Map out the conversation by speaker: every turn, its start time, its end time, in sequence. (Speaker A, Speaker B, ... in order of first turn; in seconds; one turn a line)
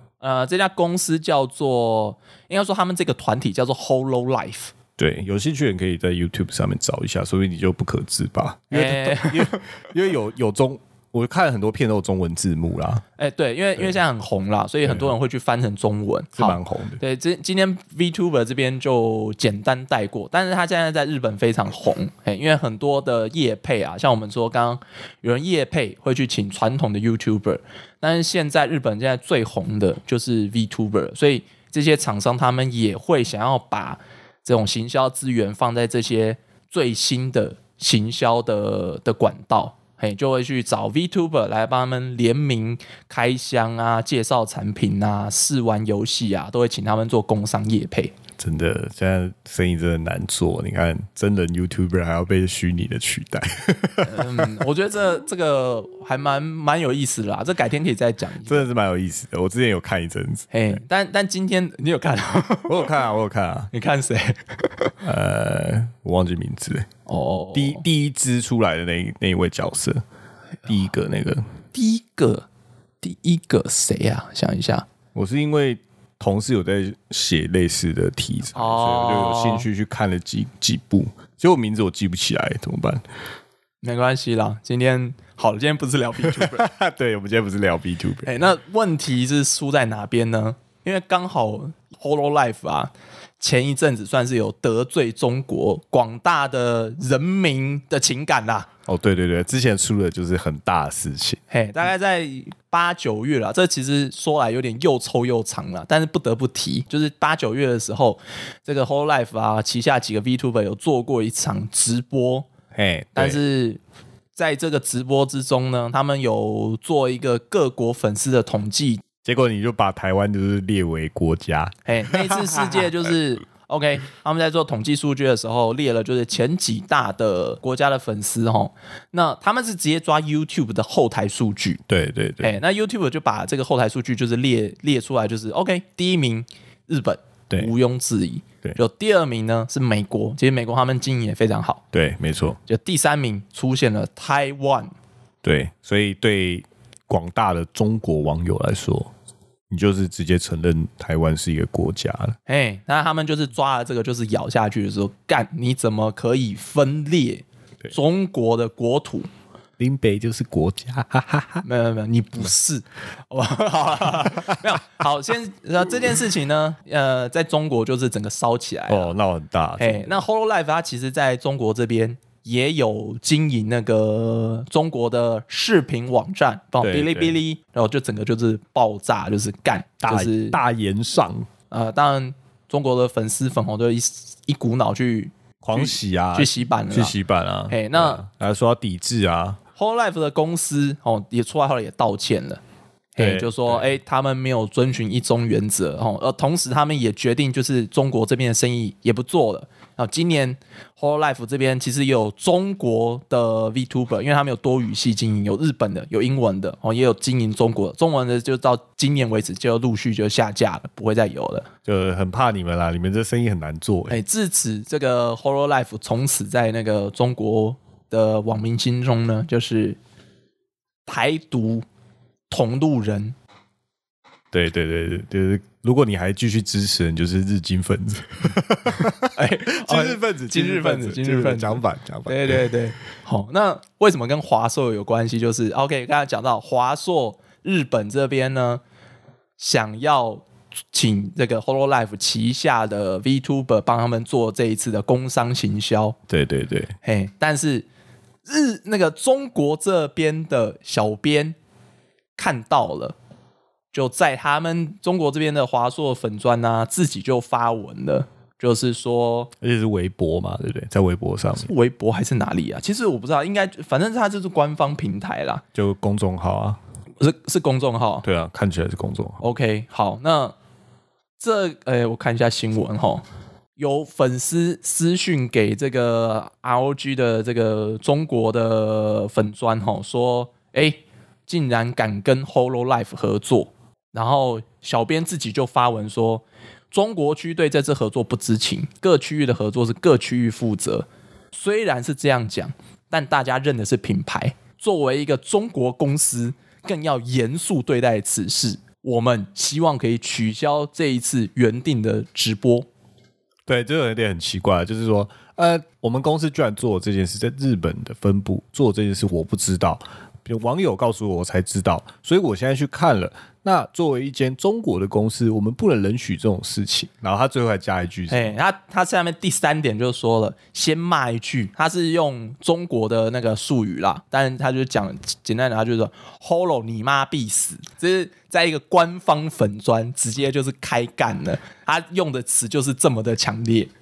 Speaker A: 0.2-4.7
Speaker B: 5.0-13.0
Speaker A: 8.7-9.6
Speaker A: 13.2-48.1
Speaker B: 14.8-15.1
Speaker B: 16.4-17.0
Speaker B: 48.4-54.5
Speaker A: 54.0-58.7
Speaker B: 58.5-60.8
Speaker A: 60.5-62.9
Speaker B: 62.7-63.7
Speaker A: 63.7-64.9
Speaker B: 65.0-66.9
Speaker A: 67.1-67.8
Speaker B: 67.5-70.0
Speaker B: 70.7-71.5
Speaker A: 71.7-72.5
Speaker A: 73.0-74.9
Speaker B: 75.1-83.0
Speaker A: 78.5-79.7
Speaker A: 83.8-86.7
Speaker B: 86.2-88.3
Speaker A: 88.2-98.7
Speaker B: 98.9-101.4
Speaker A: 101.5-112.5
Speaker B: 112.7-113.4
Speaker A: 113.2-113.8
Speaker A: 114.3-119.0
Speaker B: 119.2-122.9
Speaker A: 121.9-131.8
Speaker B: 131.9-132.6
Speaker A: 132.4-141.8
Speaker B: 141.9-142.6
Speaker A: 142.7-144.9
Speaker B: 145.4-149.1
Speaker B: 149.7-152.4
Speaker A: 152.5-159.3
Speaker B: 159.8-161.7
Speaker A: 161.6-169.1
Speaker B: 168.9-170.2
Speaker A: 169.8-180.6
Speaker B: 176.8-177.4
Speaker B: 180.0-181.5
Speaker A: 181.7-187.1
Speaker B: 185.6-189.6
Speaker A: 187.7-188.2
Speaker A: 189.8-192.6
Speaker A: 193.2-211.7
Speaker B: 193.2-193.8
Speaker B: 211.8-214.2
Speaker A: 214.1-220.0
Speaker A: 221.1-221.8
Speaker A: 222.5-223.4
Speaker B: 224.5-232.7
Speaker A: 229.3-238.8
Speaker A: 239.6-246.2
Speaker B: 246.3-246.9
Speaker A: 247.0-247.9
Speaker A: 248.5-251.6
Speaker A: 252.4-253.2
Speaker A: 253.9-259.5
Speaker B: 259.6-261.7
Speaker A: 261.6-265.6
Speaker B: 265.8-266.8
Speaker A: 267.2-268.2
Speaker B: 268.2-269.4
Speaker A: 269.4-270.6
Speaker A: 271.4-273.2
Speaker A: 273.8-302.9
Speaker B: 303.7-318.6
Speaker A: 318.3-333.9